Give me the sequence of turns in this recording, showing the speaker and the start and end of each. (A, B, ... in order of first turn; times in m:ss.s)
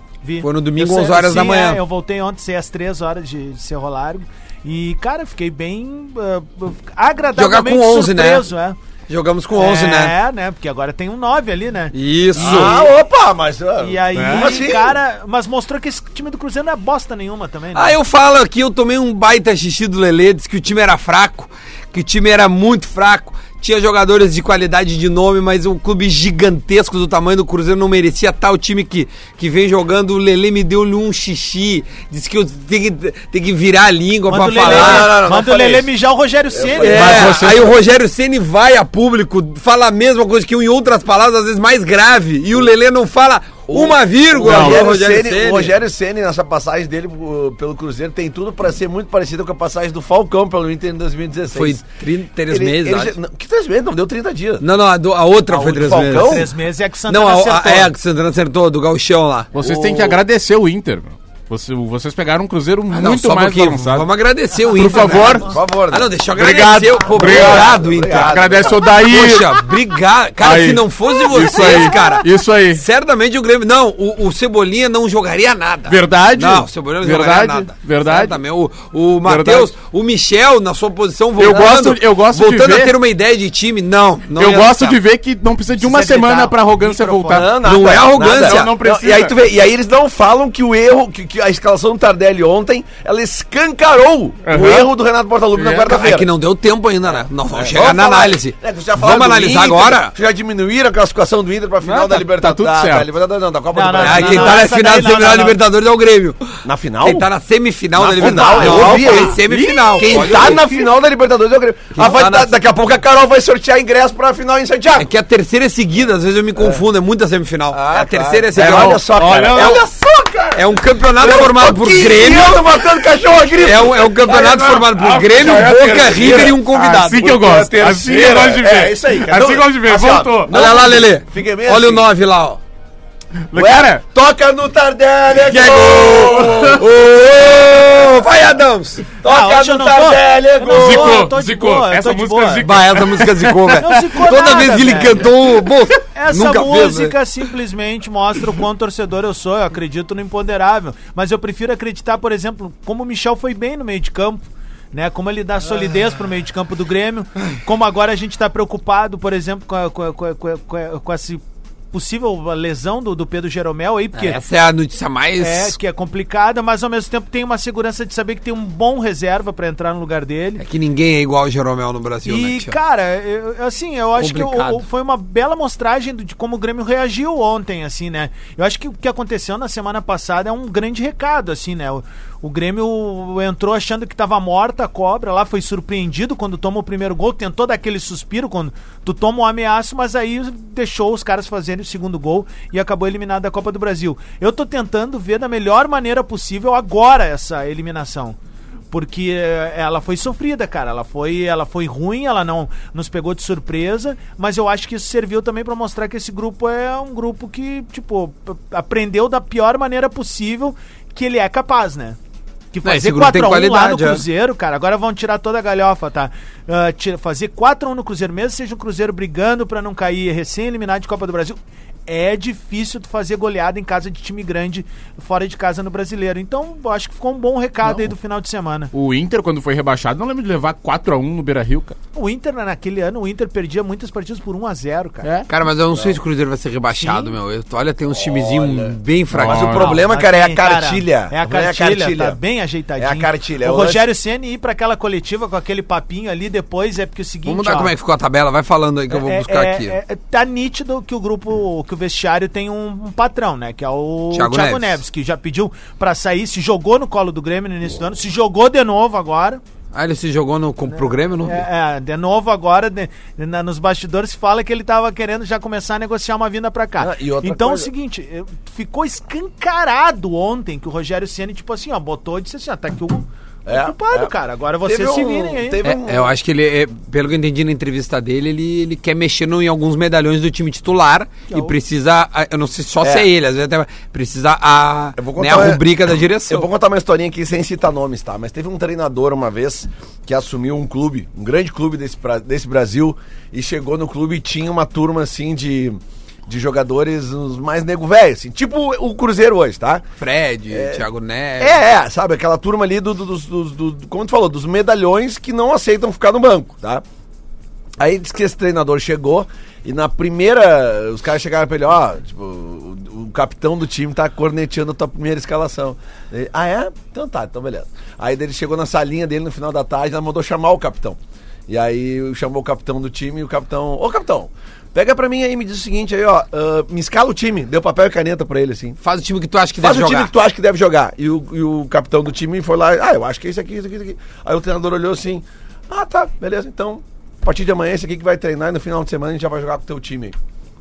0:00.2-0:08.8 A
0:00.4-0:01.8 B
0:07.4-0:08.5 B
0:09.1-0:10.1 B
0:09.5-0:12.8 A
0:11.9-0:12.9 B
0:12.4-0:15.0 C
0:13.8-0:18.0 A
0:14.2-0:14.7 D
0:17.8-0:35.2 B
0:34.3-0:37.2 A
0:34.5-0:35.9 C
0:36.5-0:37.7 C
0:36.8-0:45.8 B
0:36.9-0:37.7 D
0:43.7-0:51.8 C
0:44.4-0:44.8 D
0:51.5-0:53.2 B
0:52.5-0:54.6 C
0:54.6-0:56.5 B
0:55.5-0:56.5 C
0:56.1-0:57.9 A
0:57.1-0:59.5 B
0:59.5-1:04.1 D
0:59.6-1:00.2 C
1:02.9-1:25.0 B
1:04.7-1:05.5 D
1:05.1-1:06.2 C
1:06.3-1:09.7 D
1:07.1-1:08.9 C
1:10.4-1:12.8 D
1:15.9-1:18.4 D
1:19.2-1:19.7 D
1:21.4-1:23.0 D
1:24.4-1:29.4 D
1:25.8-1:27.5 A
1:27.2-1:36.3 C
1:27.6-1:28.7 B
1:34.5-1:34.9 D
1:35.5-1:36.0 D
1:35.9-1:40.1 B
1:37.1-1:44.7 C
1:41.8-1:43.1 D
1:43.7-1:45.6 A
1:44.0-1:46.4 B
1:46.6-1:47.3 C
1:47.0-1:50.6 B
1:48.0-1:49.4 C
1:48.2-1:49.3 A
1:49.3-1:50.9 D
1:50.0-1:55.1 C
1:52.0-1:52.6 B
1:55.0-1:59.8 B
1:56.6-1:56.8 C
1:57.7-2:12.1 C
1:58.6-1:59.9 D
2:00.6-2:02.8 B
2:03.6-2:07.2 B
2:06.3-2:10.8 D
2:10.5-2:12.6 B
2:13.5-2:14.0 D
2:13.6-2:16.9 C
2:15.5-2:19.1 B
2:15.6-2:16.6 D
2:19.2-2:21.3 C
2:19.2-2:22.7 A
2:20.7-2:24.0 D
2:22.6-2:27.2 B
2:23.8-2:25.3 A
2:26.1-2:34.4 A
2:34.9-2:41.4 A
2:41.9-2:44.4 A
2:44.2-2:45.8 B
2:45.4-2:50.6 A
2:50.6-2:52.8 B
2:52.3-3:18.4 A
2:54.2-2:54.8 B
3:18.9-3:32.2 A
3:32.7-3:48.9 A
3:32.8-3:34.2 B
3:47.8-3:48.1 D
3:48.9-3:52.0 D
3:52.2-3:55.3 A
3:55.2-3:55.5 D
3:55.5-3:59.8 B
3:55.9-3:56.2 C
3:57.0-3:57.3 A
3:58.1-4:02.4 C
3:59.3-4:00.0 D
3:59.7-4:07.9 A
4:03.0-4:04.0 C
4:07.5-4:10.0 B
4:09.1-4:19.6 A
4:14.3-4:15.0 B
4:19.9-4:21.7 B
4:20.9-4:35.8 A
4:27.0-4:27.9 C
4:33.7-4:34.3 C
4:34.8-4:36.3 C
4:35.8-4:46.7 B
4:45.2-4:45.8 C
4:46.5-5:00.0 C
5:00.2-5:01.8 B
5:00.7-5:01.0 C
5:01.6-5:07.0 C
5:08.0-5:29.0 C
5:29.0-5:30.3 B
5:29.8-5:40.4 C